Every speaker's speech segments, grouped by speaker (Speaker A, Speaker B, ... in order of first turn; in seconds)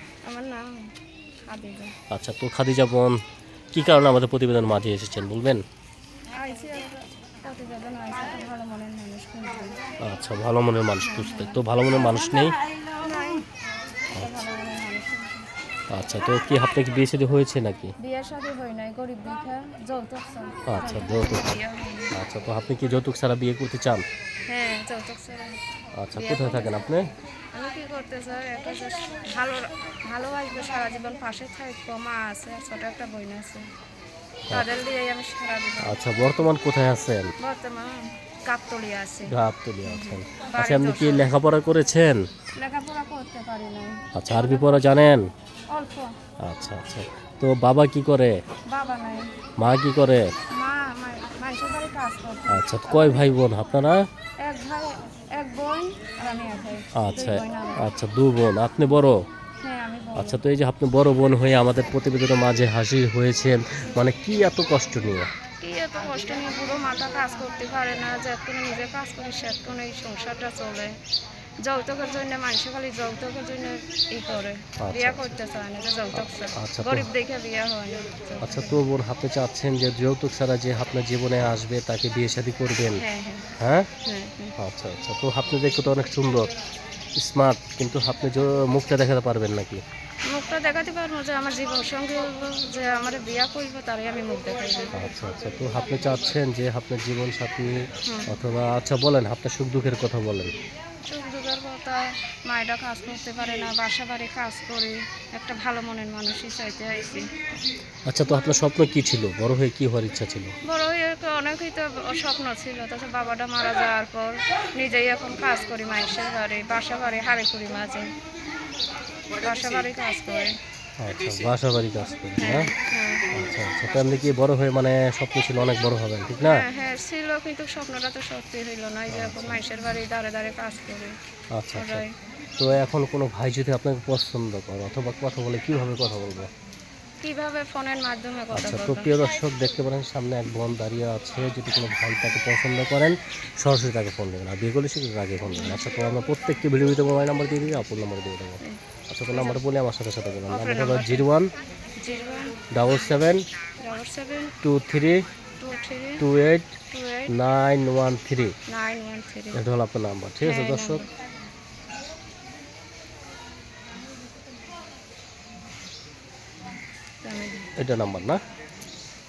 Speaker A: 0.2-0.9, 1.5-1.9, 6.3-9.8, 11.0-11.6, 12.9-13.5, 14.1-15.5, 18.0-22.1, 24.5-25.6, 26.1-27.0, 27.5-33.6, 34.5-36.3, 37.4-41.3, 42.5-45.0, 45.7-46.1, 48.7-49.3, 50.5-53.2, 54.4-57.8, 59.6-60.4, 65.6-70.9, 71.6-78.8, 82.9-83.5, 84.0-84.5, 90.3-95.0, 98.0-98.3, 101.0-107.3, 110.7-118.1, 119.4-120.6, 122.4-123.3, 126.4-131.1, 131.7-132.1, 137.2-139.2, 145.5-145.8, 148.6-149.6, 150.5-151.3, 152.0-152.6, 153.8-154.6, 155.6-156.2, 156.9-157.3, 158.7-159.6, 160.4-161.1, 167.2-167.7
Speaker B: 2.1-3.2, 3.7-5.6, 10.0-12.6, 14.1-14.4, 15.9-17.9, 20.6-21.6, 22.1-24.0, 26.0-27.1, 35.8-37.3, 39.3-42.2, 44.1-45.2, 46.4-48.4, 49.6-50.3, 52.5-54.0, 56.9-59.2, 60.1-65.3, 74.8-75.3, 76.1-77.1, 78.4-83.0, 83.6-83.9, 84.6-86.5, 87.2-89.8, 94.9-100.5, 108.1-110.5, 121.0-122.7, 123.3-126.6, 129.1-129.6, 131.5-132.0, 132.6-136.5, 138.5-151.5, 152.7-153.4, 154.6-155.2, 156.2-156.8, 157.3-158.6, 159.5-161.0, 167.8-168.4